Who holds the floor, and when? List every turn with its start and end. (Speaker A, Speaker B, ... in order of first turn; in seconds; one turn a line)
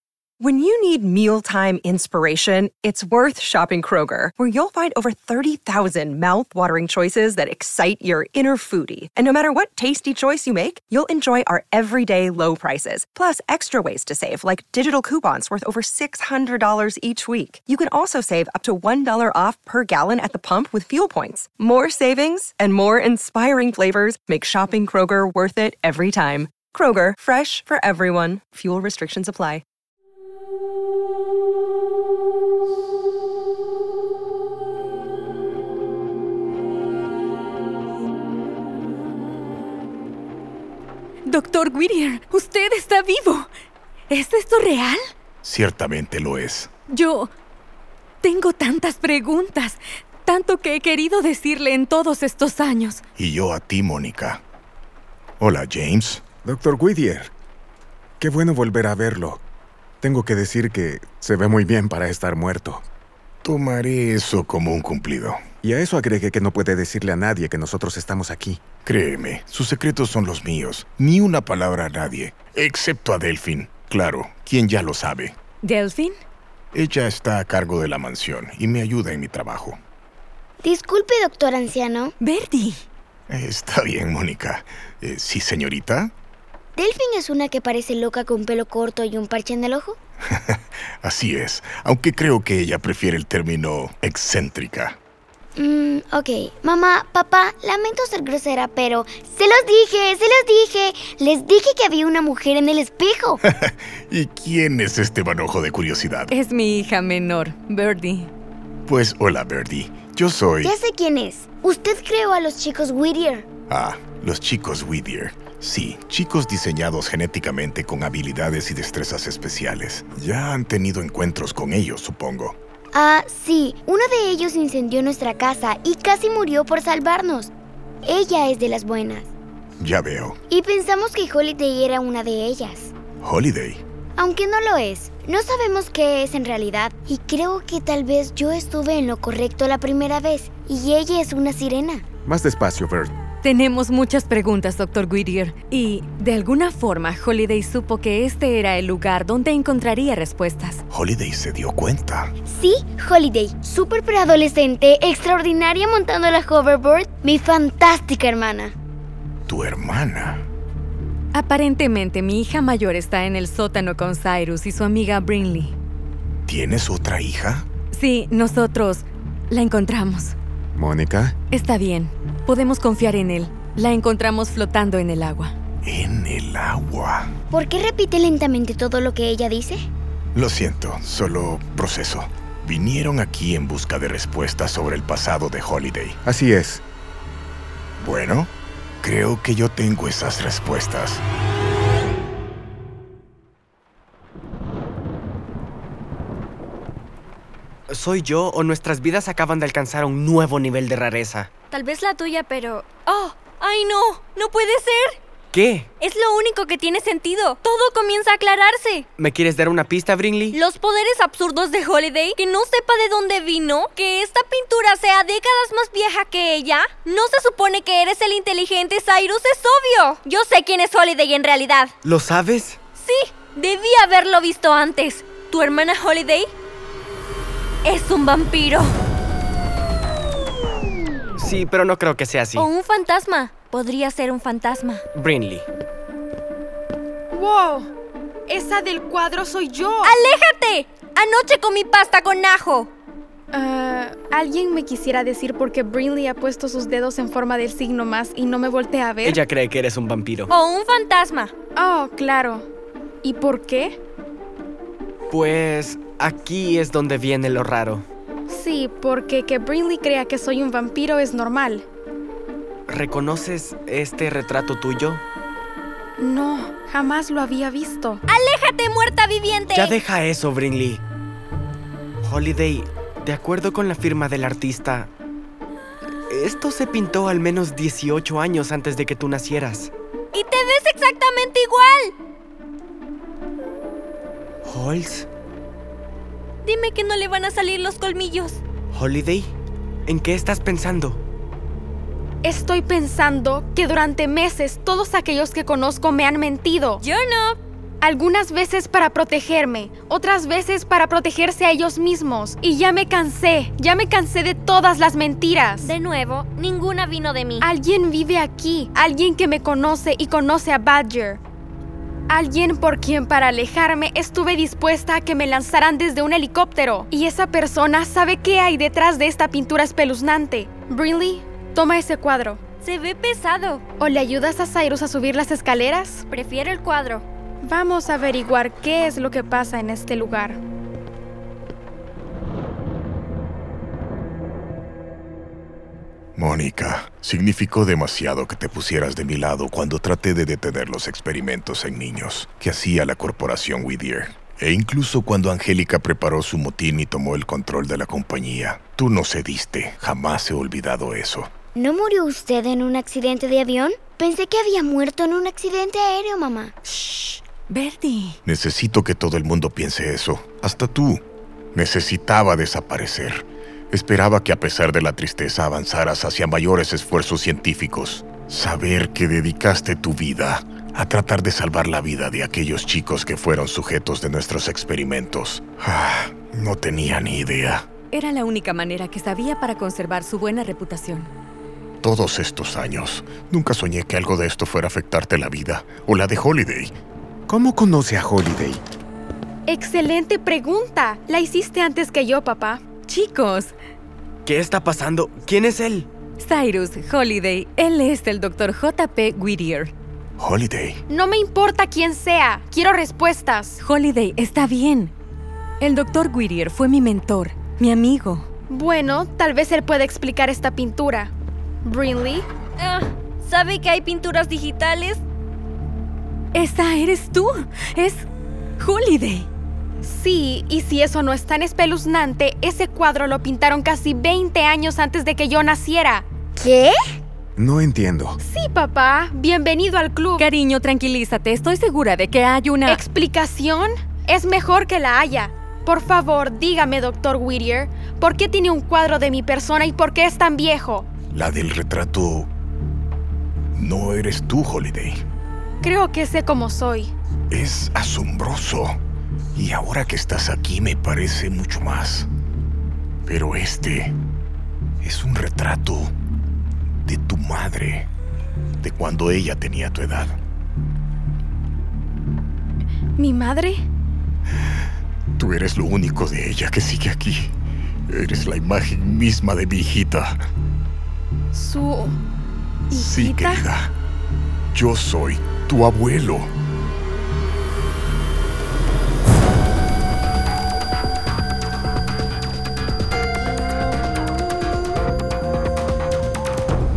Speaker A: 0.4-29.6
Speaker B: 41.2-43.5
Speaker B: 44.1-45.0
Speaker C: 45.4-46.7
Speaker B: 46.9-47.3
Speaker B: 48.2-53.0
Speaker C: 53.2-54.4
Speaker C: 55.4-56.2
Speaker D: 56.4-57.3
Speaker D: 58.2-59.4
Speaker D: 60.0-62.8
Speaker C: 63.4-65.4
Speaker D: 65.6-68.6
Speaker C: 68.8-75.3
Speaker B: 75.6-76.2
Speaker C: 76.7-79.8
Speaker E: 80.6-82.1
Speaker B: 82.2-82.8
Speaker C: 83.3-86.1
Speaker E: 86.8-90.0
Speaker C: 90.5-95.0
Speaker E: 95.6-103.4
Speaker C: 103.4-106.3
Speaker B: 106.3-108.3
Speaker C: 108.9-110.7
Speaker E: 110.6-113.5
Speaker C: 113.7-122.6
Speaker E: 122.9-127.5
Speaker E: 128.0-129.3
Speaker C: 129.8-130.3
Speaker E: 130.5-132.9
Speaker C: 133.2-133.8
Speaker E: 134.2-142.0
Speaker D: 142.2-143.1
Speaker B: 143.4-150.8
Speaker C: 150.9-152.3
Speaker E: 152.5-158.7
Speaker C: 159.5-160.4
Speaker B: 161.3-165.7
Speaker C: 166.4-167.6
Speaker B: 167.9-170.3
Speaker D: 170.8-171.3
Speaker B: 171.5-175.5
Speaker C: 175.8-177.3
Speaker E: 177.5-179.9
Speaker C: 180.3-186.2
Speaker D: 186.2-186.8
Speaker C: 188.0-188.5
Speaker C: 189.0-191.2
Speaker F: 197.9-201.5
Speaker G: 201.7-205.2
Speaker F: 205.5-205.9
Speaker G: 206.0-209.1
Speaker F: 209.2-210.6
Speaker G: 210.5-221.9
Speaker F: 222.0-222.8
Speaker G: 223.0-226.5
Speaker G: 227.8-229.0
Speaker F: 231.4-232.7
Speaker G: 232.5-235.0
Speaker F: 235.1-235.7
Speaker H: 237.3-237.9
Speaker H: 238.5-240.1
Speaker G: 240.0-242.9
Speaker H: 243.5-249.4
Speaker F: 249.2-250.5
Speaker G: 250.5-251.5
Speaker H: 251.8-252.7
Speaker H: 253.2-254.0
Speaker F: 255.3-258.0
Speaker H: 258.5-261.8
Speaker F: 262.9-265.2
Speaker H: 266.2-268.2
Speaker G: 268.3-270.0
Speaker F: 269.7-271.0
Speaker F: 272.2-275.1
Speaker F: 276.3-279.9
Speaker G: 280.3-282.1
Speaker F: 284.6-285.3
Speaker G: 286.6-288.6
Speaker F: 288.9-289.5
Speaker F: 290.1-291.2
Speaker H: 292.4-297.0
Speaker G: 297.0-297.6
Speaker H: 298.0-305.9
Speaker G: 305.8-307.7
Speaker H: 307.6-311.4
Speaker H: 312.3-322.6
Speaker G: 322.8-323.8
Speaker H: 324.0-326.2
Speaker G: 326.3-327.2
Speaker H: 327.6-330.6
Speaker C: 336.4-351.5
Speaker E: 351.7-356.7
Speaker B: 356.9-358.4
Speaker C: 358.4-361.2
Speaker C: 361.7-377.9
Speaker B: 378.1-381.3
Speaker C: 382.0-386.9
Speaker D: 387.5-388.8
Speaker H: 389.7-392.8
Speaker B: 393.1-393.7
Speaker F: 394.4-396.1
Speaker B: 396.4-399.9
Speaker C: 400.4-401.0
Speaker H: 401.1-403.8
Speaker B: 403.8-405.1
Speaker B: 405.8-408.4
Speaker H: 408.7-411.3
Speaker H: 411.8-412.4
Speaker G: 412.8-415.2
Speaker B: 416.5-418.2
Speaker B: 418.8-419.5
Speaker H: 420.0-426.2
Speaker E: 426.6-426.9
Speaker D: 427.6-428.4
Speaker H: 428.4-430.5
Speaker B: 430.4-433.0
Speaker H: 432.9-441.1
Speaker C: 441.3-442.5
Speaker C: 443.7-445.2
Speaker H: 445.8-447.1
Speaker C: 447.5-449.0
Speaker C: 449.5-452.3
Speaker C: 453.3-454.1
Speaker C: 455.0-456.1
Speaker C: 457.0-458.1
Speaker C: 458.8-460.4
Speaker H: 463.2-463.8
Speaker C: 465.4-467.5
Speaker C: 468.1-470.4
Speaker H: 471.5-472.2
Speaker H: 472.9-473.6
Speaker C: 473.0-473.9
Speaker C: 474.7-476.5